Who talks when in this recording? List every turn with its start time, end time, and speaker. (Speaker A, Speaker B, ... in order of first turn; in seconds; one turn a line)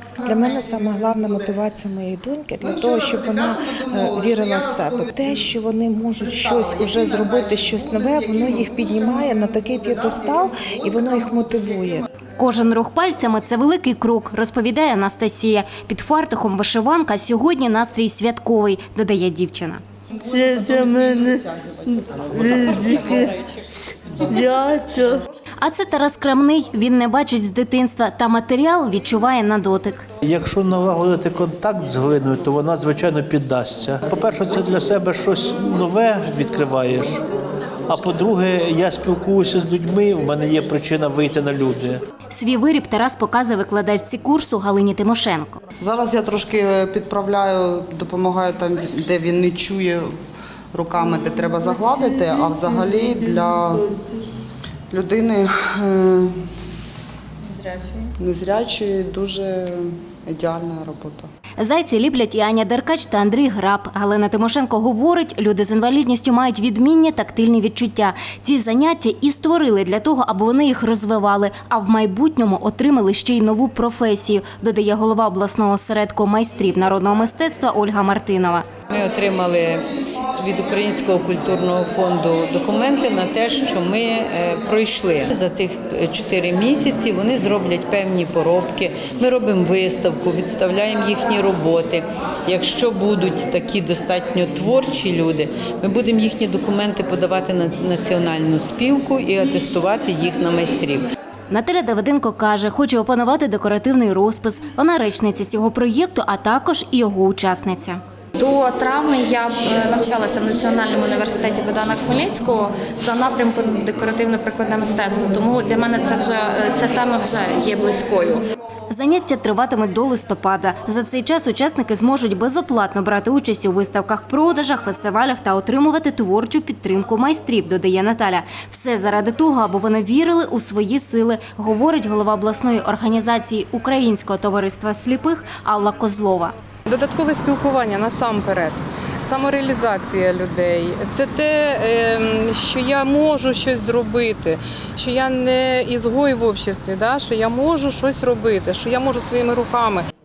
Speaker A: 0.2-12.0
Speaker B: 2.8-3.3
Speaker B: 3.9-4.8
Speaker B: 6.4-11.0
Speaker C: 12.4-19.8
Speaker D: 20.2-25.2
Speaker C: 25.6-30.0
Speaker E: 30.2-37.2
Speaker E: 37.9-42.0
Speaker C: 42.3-45.6
Speaker B: 45.8-50.1
Speaker B: 50.7-53.8
Speaker D: 51.5-53.8
Speaker B: 54.9-56.3
Speaker B: 57.7-61.3
Speaker C: 61.6-78.6
Speaker F: 78.9-101.0
Speaker C: 101.5-108.0
Speaker G: 108.3-118.4
Speaker C: 118.9-136.5
Speaker H: 136.9-150.1